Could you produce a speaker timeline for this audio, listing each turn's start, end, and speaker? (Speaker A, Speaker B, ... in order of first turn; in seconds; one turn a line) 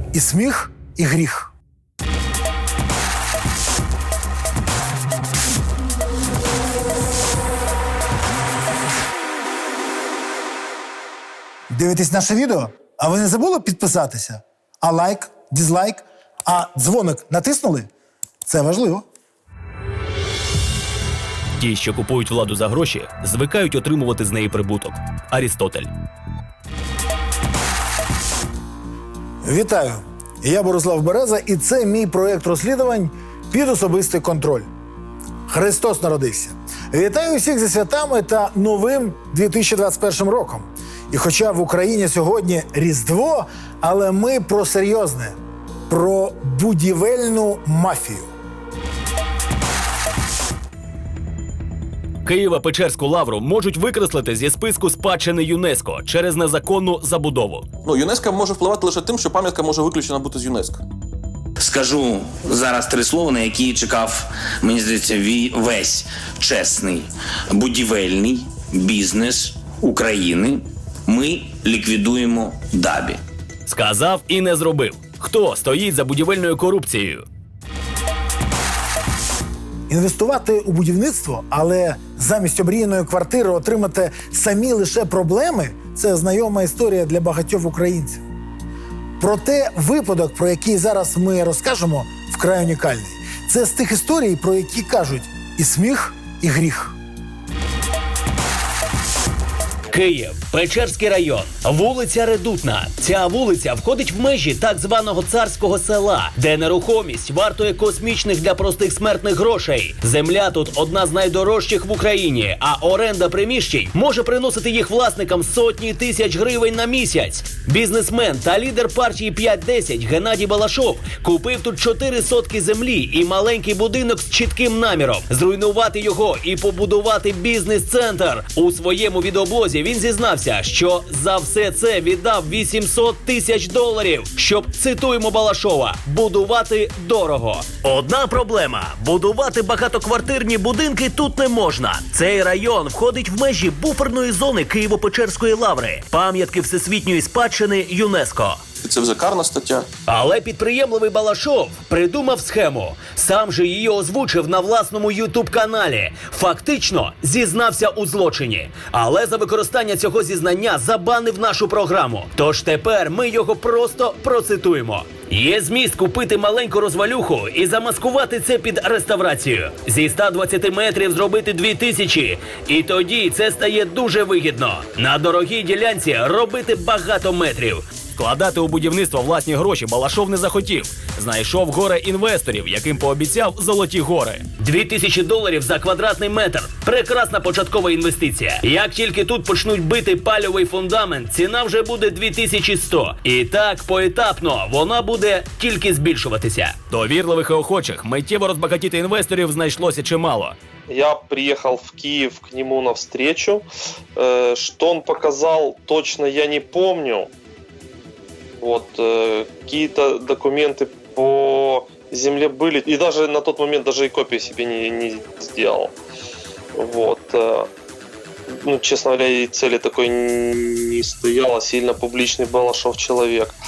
Speaker A: 0.1-1.5
Speaker A: 11.7-17.9
Speaker A: 18.5-19.1
Speaker B: 21.6-25.9
Speaker A: 29.4-34.7
Speaker A: 35.5-45.4
Speaker A: 45.9-48.3
Speaker B: 52.3-57.6
Speaker C: 57.9-60.8
Speaker D: 61.6-73.2
Speaker B: 73.7-77.2
Speaker A: 79.9-88.2
Speaker A: 89.2-97.0
Speaker B: 99.9-148.6
Speaker C: 148.8-149.9
Speaker B: 150.1-200.6
Speaker E: 200.9-203.7
Speaker E: 204.2-207.3
Speaker E: 208.6-215.9
Speaker E: 216.8-217.7
Speaker E: 218.6-223.6